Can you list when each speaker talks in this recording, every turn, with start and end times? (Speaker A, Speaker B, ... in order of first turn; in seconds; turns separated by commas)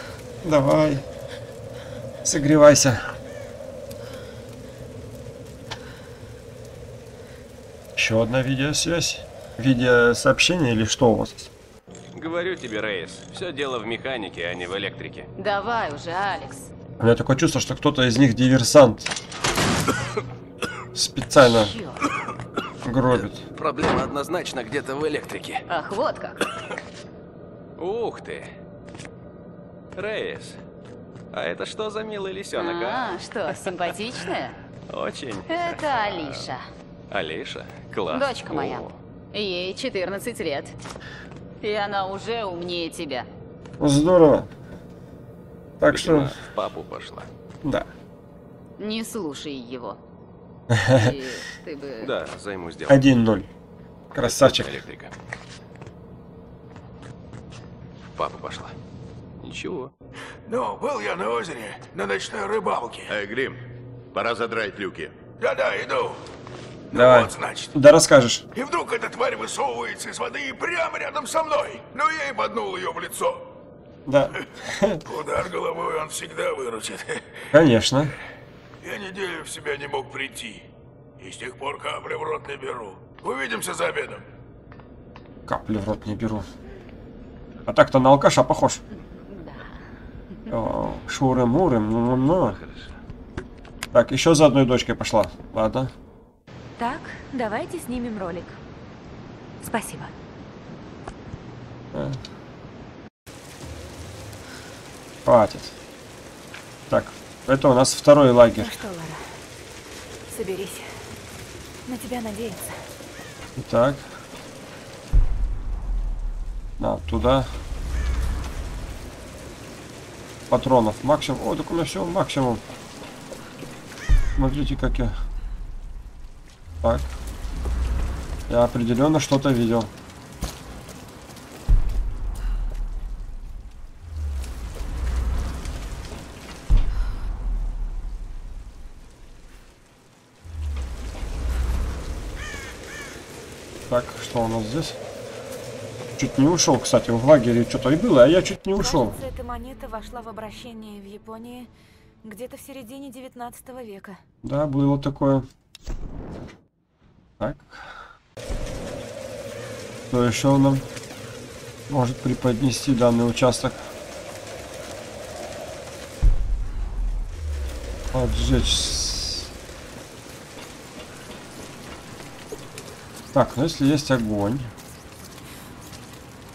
Speaker A: 0.4-1.0, Speaker A: 2.2-3.0, Speaker A: 8.0-11.5, Speaker B: 12.1-15.3, Speaker C: 15.3-16.7, Speaker A: 17.0-19.1, Speaker A: 20.9-21.8, Speaker D: 21.4-22.0, Speaker A: 22.8-23.4, Speaker B: 23.5-25.6, Speaker C: 25.7-26.4, Speaker B: 27.8-28.5, Speaker B: 29.9-30.6, Speaker B: 31.3-34.2, Speaker C: 32.5-34.5, Speaker B: 34.9-36.5, Speaker C: 35.5-36.6, Speaker B: 37.1-39.0, Speaker C: 38.1-40.8, Speaker C: 41.6-43.3, Speaker A: 43.8-44.5, Speaker A: 45.8-46.3, Speaker B: 45.8-47.3, Speaker C: 48.8-50.0, Speaker A: 50.7-51.1, Speaker C: 50.9-52.1, Speaker B: 52.0-53.2, Speaker A: 52.9-53.5, Speaker A: 54.1-54.8, Speaker B: 54.1-55.1, Speaker B: 58.1-58.8, Speaker B: 59.4-59.9, Speaker E: 60.5-63.1, Speaker F: 63.1-65.2, Speaker E: 65.4-66.2, Speaker E: 66.9-67.8, Speaker A: 66.9-68.5, Speaker E: 68.5-73.5, Speaker A: 74.1-75.0, Speaker E: 75.0-77.2, Speaker A: 77.5-78.1, Speaker E: 78.8-80.7, Speaker E: 81.2-84.2, Speaker A: 85.5-86.5, Speaker A: 87.7-88.8, Speaker A: 90.5-92.6, Speaker A: 93.9-95.9, Speaker D: 96.8-98.6, Speaker D: 99.6-100.1, Speaker A: 101.9-102.2, Speaker A: 105.2-105.8, Speaker A: 106.9-108.7, Speaker D: 108.5-109.3, Speaker D: 110.3-111.0, Speaker D: 111.8-112.8, Speaker A: 113.5-114.1, Speaker A: 116.8-117.5, Speaker A: 120.5-122.6, Speaker A: 124.3-125.1, Speaker A: 126.8-127.1, Speaker A: 128.5-129.9, Speaker A: 143.9-145.0, Speaker A: 146.2-149.1, Speaker D: 148.8-151.7, Speaker D: 152.2-154.2, Speaker A: 154.4-155.4, Speaker A: 157.4-157.9, Speaker A: 160.1-160.8, Speaker A: 161.9-163.9, Speaker A: 168.1-169.5, Speaker A: 173.3-174.7